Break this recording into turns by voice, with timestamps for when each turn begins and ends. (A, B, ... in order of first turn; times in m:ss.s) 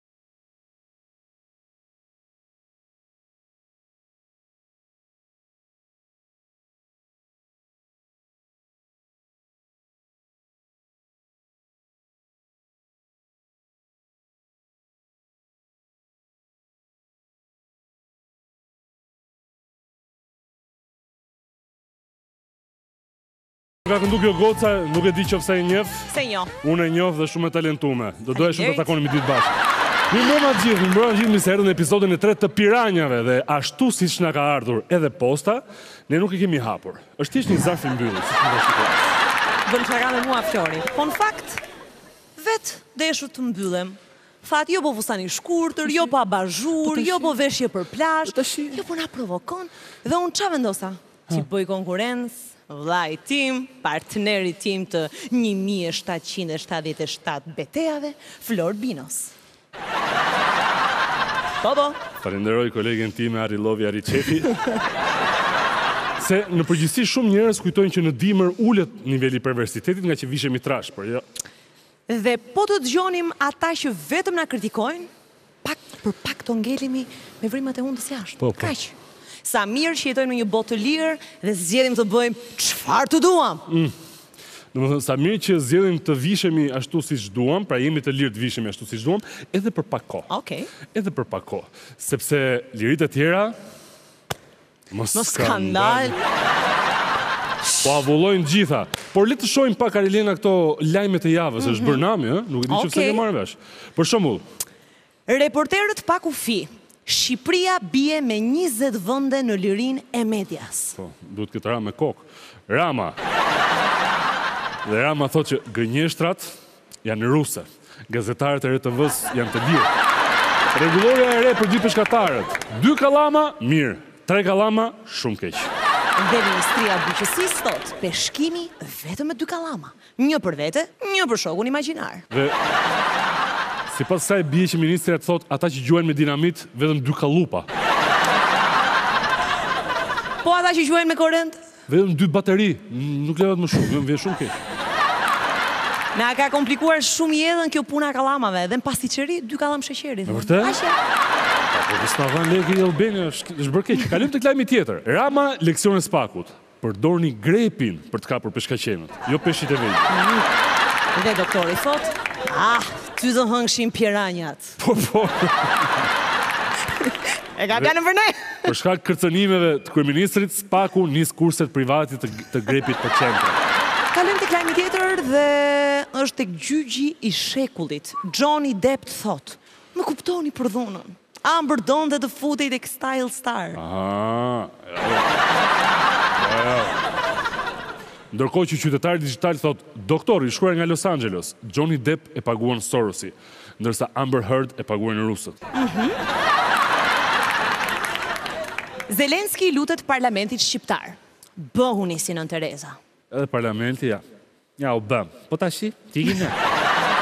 0:23.9-0:26.1 A
0:26.1-0:26.5 B
0:26.6-0:29.6 A
0:28.3-0:29.0 B
0:30.1-0:39.0 A
0:39.7-0:41.6 B
0:42.4-0:59.3 B
0:46.8-0:47.4 A
0:48.3-0:48.8 A
1:01.6-1:02.0 B
1:02.2-1:04.6 A
1:06.2-1:11.2 A
1:12.1-1:15.1 B
1:15.6-1:23.6 B
1:18.4-1:18.7 A
1:24.7-1:30.3 A
1:30.3-1:30.7 B
1:30.9-1:33.6 A
1:34.9-1:36.2 A
1:35.1-1:36.2 B
1:37.8-1:44.4 A
1:41.6-1:42.0 B
1:42.7-1:43.2 B
1:45.3-1:51.0 B
1:51.0-1:53.2 A
1:54.8-1:59.9 A
2:00.7-2:05.7 A
2:06.2-2:12.2 B
2:13.9-2:17.7 A
2:20.4-2:21.6 B
2:21.9-2:24.5 A
2:26.2-2:31.0 B
2:30.3-2:30.8 A
2:31.7-2:40.1 A
2:40.1-2:40.4 B
2:41.2-2:44.7 B
2:44.8-2:45.7 A
2:47.6-2:48.7 B
2:48.7-2:53.6 A
2:54.1-3:03.8 B
3:03.8-3:05.3 A
3:06.4-3:07.0 A
3:08.3-3:15.6 A
3:15.8-3:16.2 B
3:19.1-3:23.0 B
3:23.3-3:24.2 A
3:24.8-3:26.6 A